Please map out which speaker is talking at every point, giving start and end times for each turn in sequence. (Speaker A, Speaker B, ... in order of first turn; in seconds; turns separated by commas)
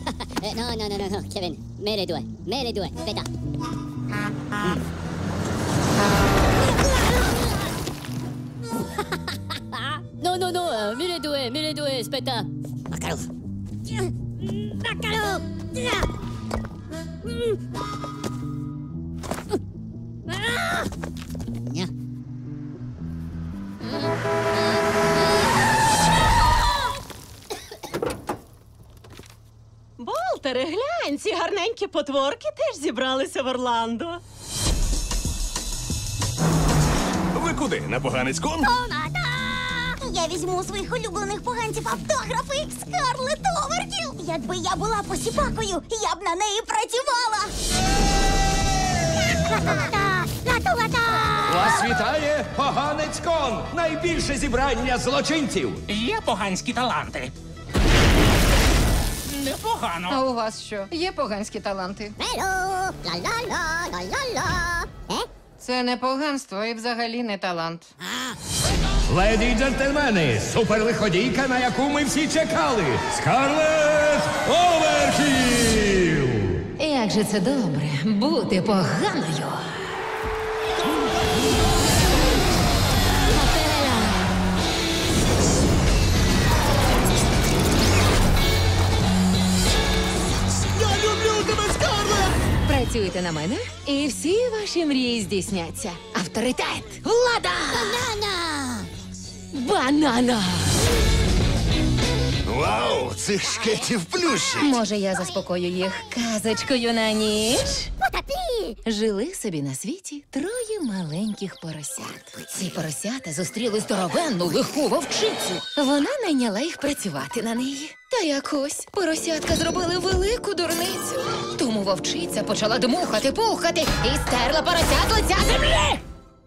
Speaker A: 0.4-3.3, Speaker A: 6.7-7.3, Speaker A: 9.8-13.3, Speaker A: 14.6-16.0, Speaker B: 30.0-34.2, Speaker C: 37.4-38.7, Speaker D: 40.0-47.5, Speaker D: 49.3-51.8, Speaker E: 51.4-55.8, Speaker F: 55.9-57.3, Speaker F: 59.3-60.2, Speaker G: 60.1-62.1, Speaker A: 62.2-65.3, Speaker G: 65.6-67.9, Speaker E: 69.1-76.6, Speaker H: 76.8-79.8, Speaker C: 91.0-92.1, Speaker H: 92.6-98.1, Speaker A: 97.8-98.8, Speaker H: 99.5-100.8, Speaker C: 102.7-103.9, Speaker H: 104.5-107.9, Speaker A: 108.1-108.7, Speaker H: 108.8-126.0